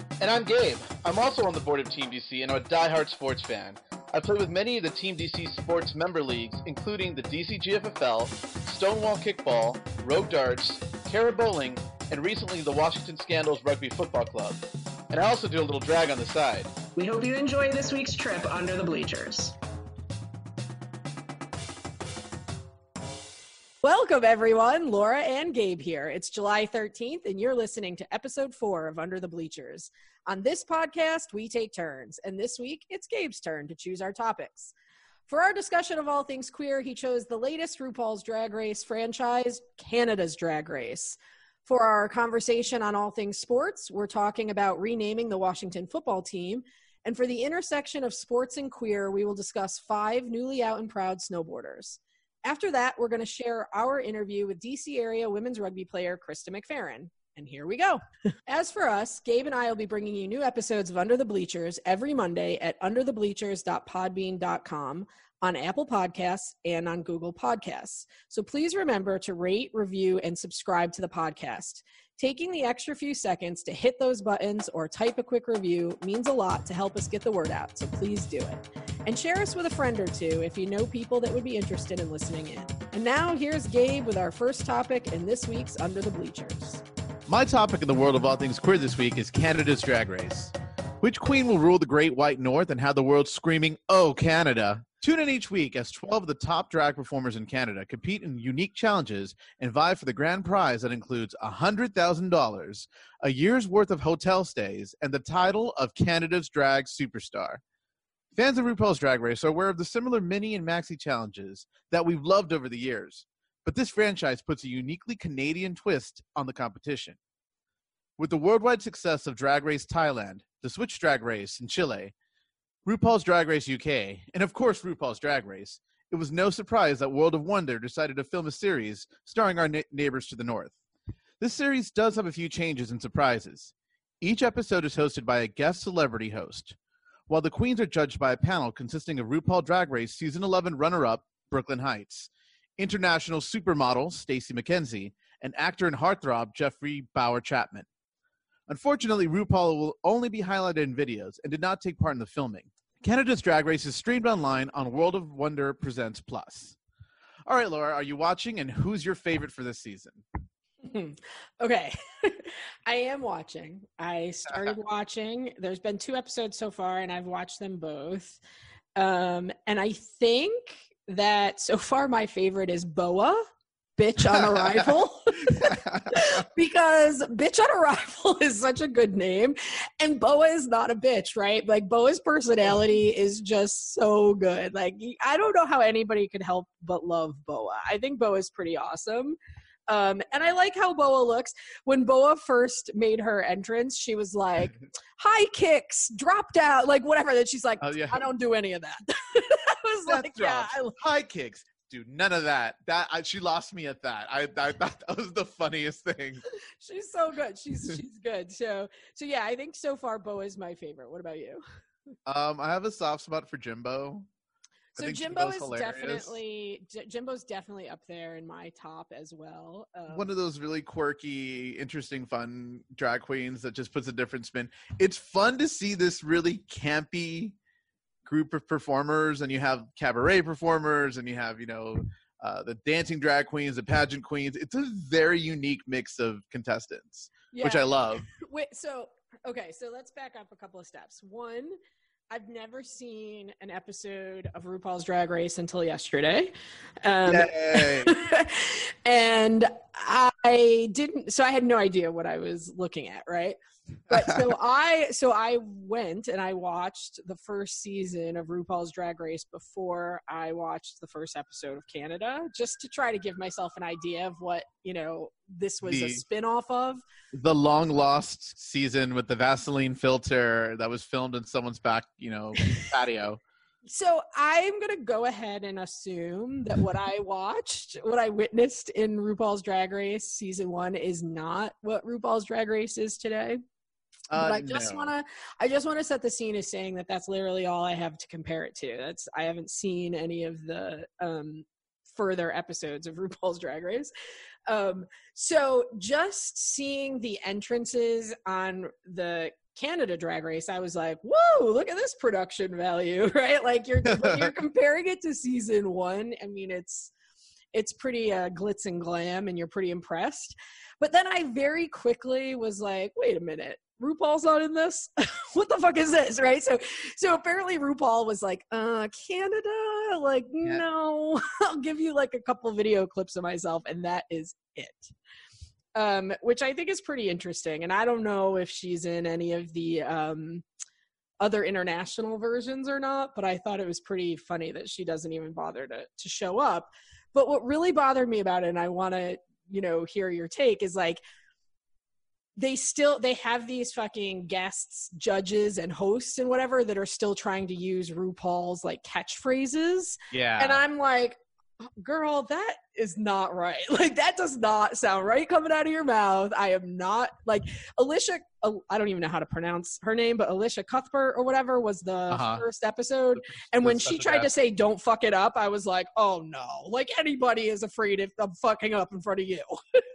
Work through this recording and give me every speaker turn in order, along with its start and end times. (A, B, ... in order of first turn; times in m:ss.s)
0:00.2-0:16.7 A
0:16.9-0:19.5 B
0:23.8-0:34.7 C
0:35.3-1:26.8 C
1:27.3-1:47.6 A
1:48.3-1:57.2 A
1:58.2-2:02.1 A
2:02.8-2:10.7 A
2:11.4-2:16.8 A
2:17.3-2:27.9 A
2:28.7-2:36.8 A
2:37.4-2:40.2 A
2:40.8-2:48.4 C
2:48.9-3:09.4 C
2:55.7-2:56.0 A
3:09.9-3:21.0 C
3:17.8-3:18.2 A
3:20.1-3:26.4 A
3:26.8-3:31.6 C
3:32.2-3:34.3 A
3:35.0-3:40.3 C
3:35.0-3:36.4 A
3:40.1-3:47.5 A
3:48.2-3:58.3 A
3:57.5-4:01.8 C
4:02.3-4:13.6 C
4:07.3-4:08.2 A
4:14.1-4:27.0 C
4:25.8-4:26.2 A
4:27.3-4:33.4 A
4:33.9-4:43.6 C
4:44.3-4:45.0 A
4:44.3-4:54.1 C
4:54.7-5:07.1 C
5:04.1-5:04.5 A
5:07.7-5:25.1 C
5:25.9-5:30.6 C
5:31.4-5:41.2 C
5:42.6-5:51.4 C
5:50.3-5:50.8 A
5:52.0-6:10.0 C
6:02.3-6:02.6 A
6:03.8-6:04.5 A